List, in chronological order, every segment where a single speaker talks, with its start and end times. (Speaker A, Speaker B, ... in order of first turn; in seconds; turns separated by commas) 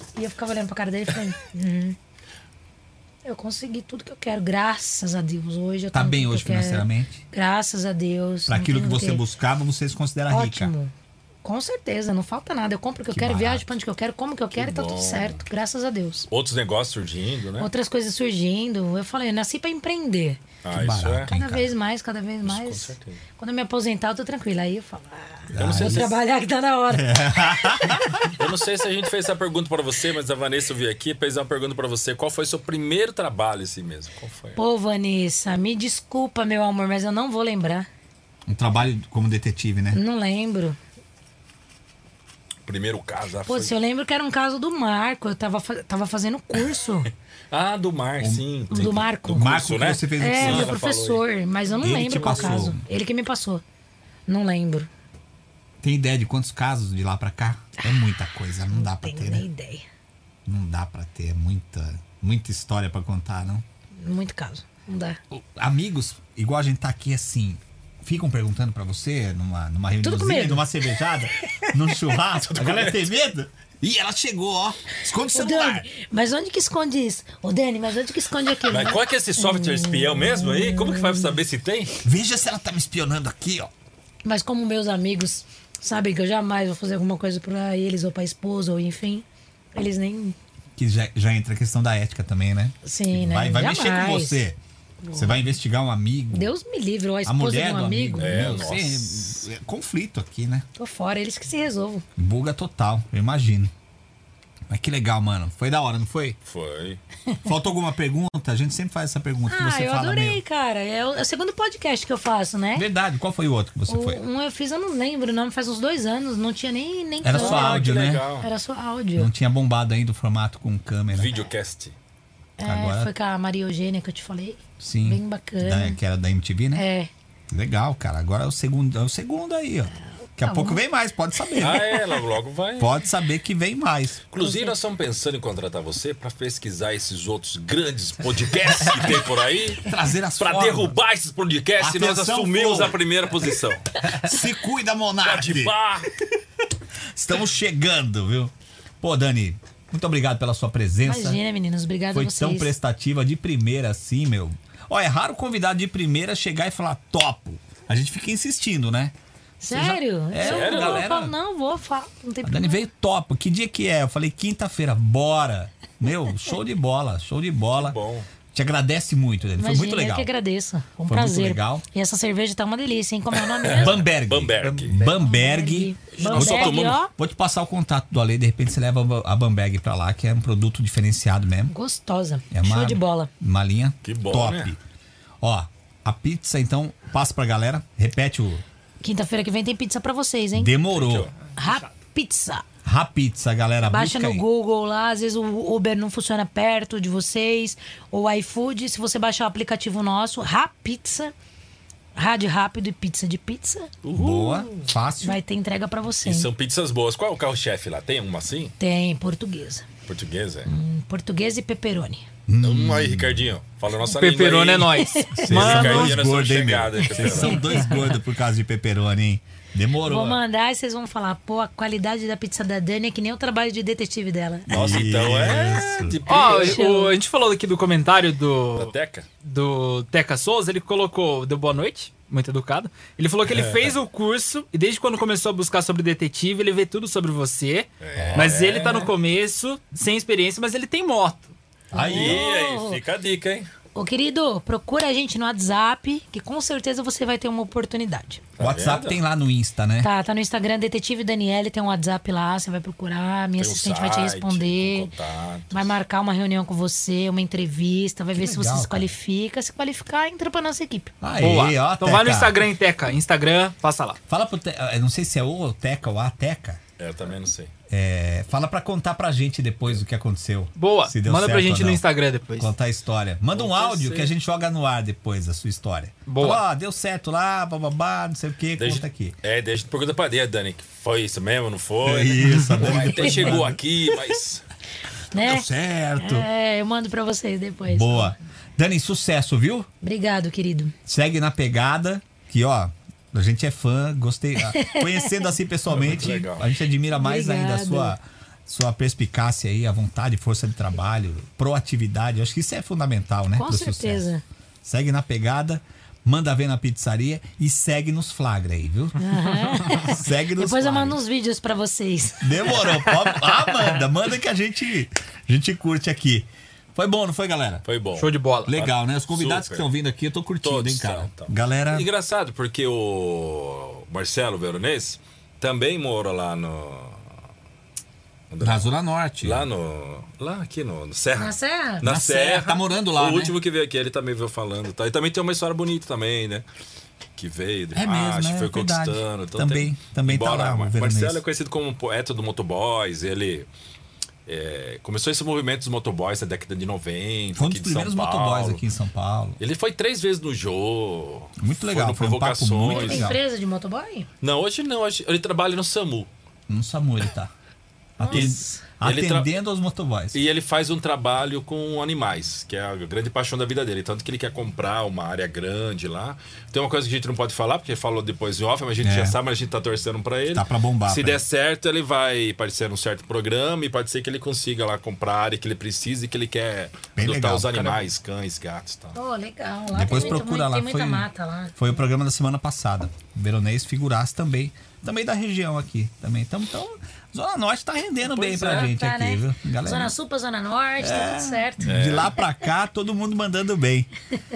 Speaker A: 0.2-2.0, Speaker A: 3.2-9.2, Speaker B: 5.9-7.2, Speaker B: 8.5-10.7, Speaker A: 10.3-10.9, Speaker A: 11.4-16.3, Speaker B: 13.1-13.8, Speaker C: 14.6-15.4, Speaker C: 16.3-17.7, Speaker A: 17.6-20.4, Speaker C: 20.6-21.3, Speaker B: 20.7-21.7, Speaker A: 21.3-28.0, Speaker C: 22.4-23.2, Speaker B: 25.5-26.1, Speaker C: 25.6-26.2, Speaker B: 26.9-28.4, Speaker C: 28.3-34.6, Speaker A: 34.6-37.9, Speaker B: 38.5-40.0, Speaker A: 39.9-40.8, Speaker C: 42.7-43.7, Speaker A: 43.5-47.1, Speaker C: 47.5-51.2, Speaker B: 48.2-50.7, Speaker A: 48.7-49.6, Speaker A: 50.2-53.6, Speaker B: 51.8-52.8, Speaker A: 54.3-54.9, Speaker B: 55.8-59.5, Speaker A: 57.8-59.9, Speaker B: 60.5-63.6, Speaker A: 64.0-65.2, Speaker B: 65.3-75.9, Speaker A: 70.0-70.7, Speaker C: 72.4-73.1, Speaker A: 75.2-81.3, Speaker C: 78.7-82.0, Speaker B: 82.0-83.7, Speaker A: 84.2-90.4, Speaker B: 90.8-94.6, Speaker A: 92.8-94.5, Speaker A: 95.0-95.5, Speaker B: 95.1-96.5, Speaker A: 96.3-98.7, Speaker B: 97.2-100.7, Speaker C: 98.2-99.5, Speaker A: 100.8-102.0, Speaker B: 102.2-103.7, Speaker B: 104.7-106.4, Speaker C: 106.5-107.0, Speaker B: 107.5-110.4, Speaker A: 109.5-112.9, Speaker B: 112.8-114.2, Speaker A: 113.9-119.3, Speaker B: 117.2-118.3, Speaker C: 117.3-118.5, Speaker B: 119.2-121.3, Speaker C: 121.1-121.9, Speaker A: 122.6-126.0, Speaker B: 122.6-123.1, Speaker B: 124.8-126.8, Speaker A: 126.8-127.1, Speaker B: 127.5-132.0, Speaker A: 130.4-130.8, Speaker C: 131.6-133.0, Speaker B: 132.8-134.2, Speaker C: 134.3-143.9, Speaker A: 134.4-134.8, Speaker B: 139.8-141.0, Speaker B: 141.8-143.0, Speaker B: 144.0-145.7, Speaker C: 145.2-146.1, Speaker B: 147.1-151.4, Speaker A: 151.1-152.7, Speaker B: 152.1-159.1, Speaker A: 159.6-162.8, Speaker B: 159.7-161.3, Speaker C: 160.4-161.1, Speaker B: 162.4-168.0, Speaker C: 167.8-168.3, Speaker B: 168.5-170.3, Speaker A: 169.6-174.0, Speaker B: 171.1-171.8, Speaker C: 173.5-175.1, Speaker B: 173.7-181.7, Speaker A: 174.9-177.1, Speaker C: 176.1-177.0, Speaker A: 181.7-183.3, Speaker B: 182.5-184.8, Speaker C: 184.0-184.7, Speaker B: 185.4-188.6, Speaker A: 189.0-190.8, Speaker B: 190.5-191.3, Speaker C: 190.9-191.3, Speaker A: 191.6-192.7, Speaker B: 192.8-194.4, Speaker A: 193.8-201.3, Speaker A: 202.2-203.9, Speaker C: 204.0-204.9, Speaker B: 204.1-205.4, Speaker A: 205.2-206.5, Speaker C: 206.2-208.8, Speaker A: 208.8-209.9, Speaker C: 210.1-210.7, Speaker A: 210.7-212.3, Speaker B: 212.5-213.5, Speaker C: 212.6-217.7, Speaker D: 214.1-216.2, Speaker A: 215.0-215.5, Speaker B: 215.5-220.4, Speaker A: 217.2-218.1, Speaker A: 220.0-224.7, Speaker B: 224.7-226.2, Speaker C: 224.7-226.8, Speaker D: 226.3-241.5, Speaker A: 226.3-227.2, Speaker C: 228.8-229.3, Speaker C: 233.4-233.9, Speaker C: 238.0-239.1, Speaker B: 238.2-238.9, Speaker B: 241.9-242.4, Speaker A: 241.9-243.0, Speaker C: 242.0-243.7, Speaker A: 243.9-248.4, Speaker C: 248.6-249.2, Speaker B: 248.6-250.1, Speaker A: 250.0-255.1, Speaker C: 253.6-255.9, Speaker A: 255.7-261.1, Speaker B: 258.4-259.1, Speaker B: 261.2-262.6, Speaker D: 261.4-264.2, Speaker B: 264.3-266.8, Speaker C: 267.0-267.7, Speaker B: 267.9-272.0, Speaker D: 270.8-272.7, Speaker B: 272.6-279.4, Speaker C: 273.6-274.3, Speaker D: 276.3-276.6, Speaker C: 278.8-284.6, Speaker B: 282.0-283.8, Speaker A: 282.8-283.7, Speaker A: 285.3-288.3, Speaker B: 285.4-286.5, Speaker B: 287.9-289.9, Speaker A: 290.0-290.9, Speaker B: 291.1-304.3, Speaker A: 294.7-295.3, Speaker C: 295.9-296.7, Speaker A: 297.1-298.1, Speaker A: 303.6-304.4, Speaker B: 304.8-311.2, Speaker A: 309.2-313.0, Speaker B: 312.4-317.9, Speaker C: 317.9-319.9, Speaker D: 318.2-318.7, Speaker B: 318.7-322.1, Speaker C: 320.6-327.3, Speaker C: 328.5-328.9, Speaker B: 328.6-329.7, Speaker C: 329.4-336.7, Speaker A: 331.4-332.1, Speaker B: 332.0-333.6, Speaker C: 337.4-343.7, Speaker B: 337.9-341.4, Speaker C: 344.5-348.8, Speaker B: 347.6-349.6, Speaker C: 349.6-353.4, Speaker B: 351.6-353.4, Speaker A: 352.9-354.3, Speaker C: 354.4-356.3, Speaker B: 356.7-357.5, Speaker B: 358.2-360.4, Speaker A: 358.2-358.9, Speaker C: 358.3-359.5, Speaker C: 360.3-379.2, Speaker B: 369.0-369.4, Speaker B: 370.5-371.4, Speaker B: 377.1-378.0, Speaker A: 379.1-381.8, Speaker B: 379.9-390.1, Speaker C: 388.3-388.9, Speaker A: 388.6-391.9, Speaker B: 391.0-394.1, Speaker C: 391.9-392.4